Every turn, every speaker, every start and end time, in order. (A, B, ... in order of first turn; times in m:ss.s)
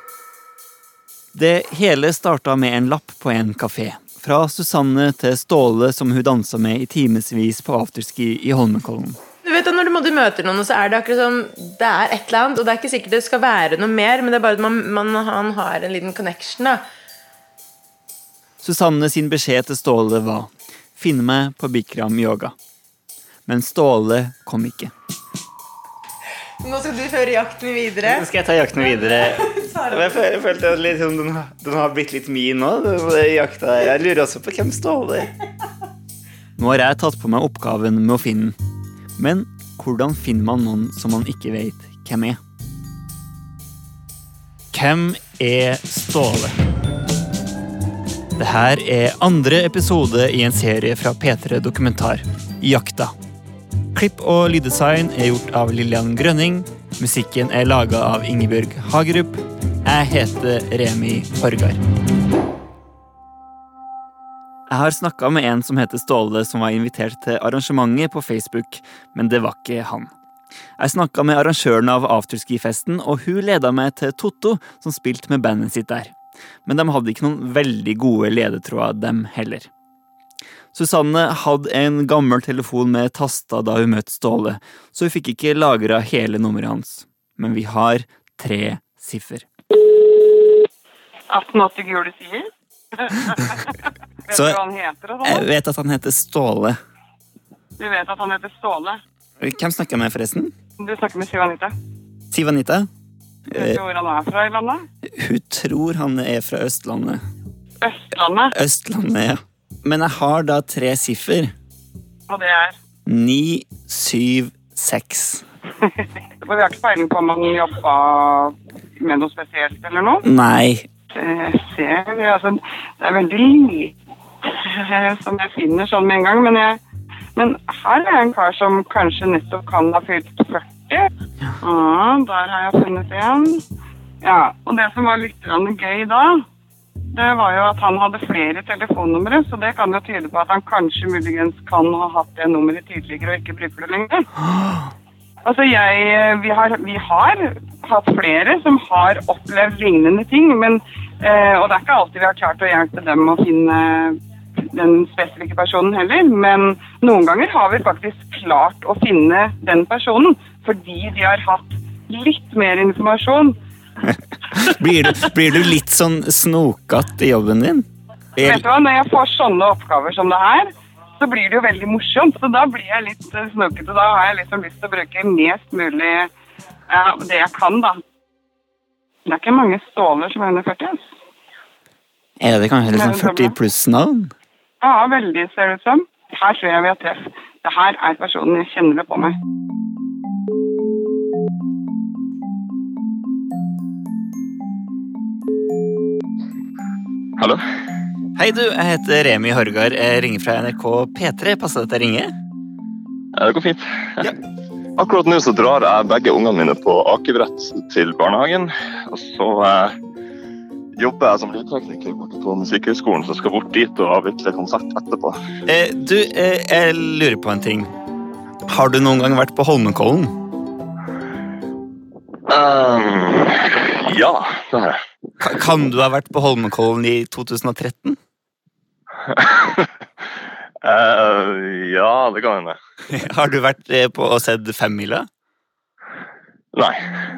0:01.3-0:09.2 A
0:09.4-0:16.8 B
0:18.6-0:22.5 A
0:23.5-0:24.9 A
0:26.6-0:28.2 B
0:28.0-0:35.3 A
0:28.8-0:30.3 B
0:36.6-0:38.6 A
0:39.2-0:42.4 A
0:44.7-0:46.6 A
0:48.4-0:53.1 A
0:53.9-1:01.8 A
1:04.7-1:10.1 A
1:10.8-1:19.7 A
1:20.7-1:29.4 A
1:31.3-1:33.7 C
1:34.3-1:35.5 C
1:34.3-1:34.6 A
1:35.2-1:36.8 A
1:37.8-1:39.0 C
1:39.4-1:40.5 A
1:40.8-1:41.7 C
1:42.3-1:42.9 A
1:43.5-1:43.8 A
1:43.6-1:44.9 C
1:45.0-1:47.2 A
1:47.8-1:48.5 C
1:48.5-1:51.5 A
1:52.3-1:52.8 C
1:53.1-1:55.4 A
1:56.4-2:00.2 C
2:00.2-2:00.9 A
2:01.1-2:03.9 C
2:04.4-2:06.8 C
2:07.4-2:11.1 C
2:11.6-2:13.6 C
2:14.2-2:16.4 C
2:17.1-2:24.3 C
2:24.5-2:24.8 A
2:25.4-2:34.2 C
2:34.7-2:43.6 C
2:44.1-2:48.6 A
2:48.4-2:56.3 C
2:56.9-2:58.0 C
2:59.2-3:01.0 C
3:02.4-3:04.3 A
3:02.9-3:03.6 C
3:04.8-3:09.3 C
3:17.4-3:17.6 D
3:18.4-3:22.3 A
3:23.4-3:24.3 D
3:25.0-3:29.9 D
3:31.0-3:35.4 D
3:35.7-3:37.9 A
3:38.7-3:40.4 A
3:42.5-3:45.0 D
3:45.4-3:48.2 A
3:49.2-3:49.9 D
3:50.8-3:52.8 D
3:53.1-3:55.3 A
3:56.7-3:57.0 D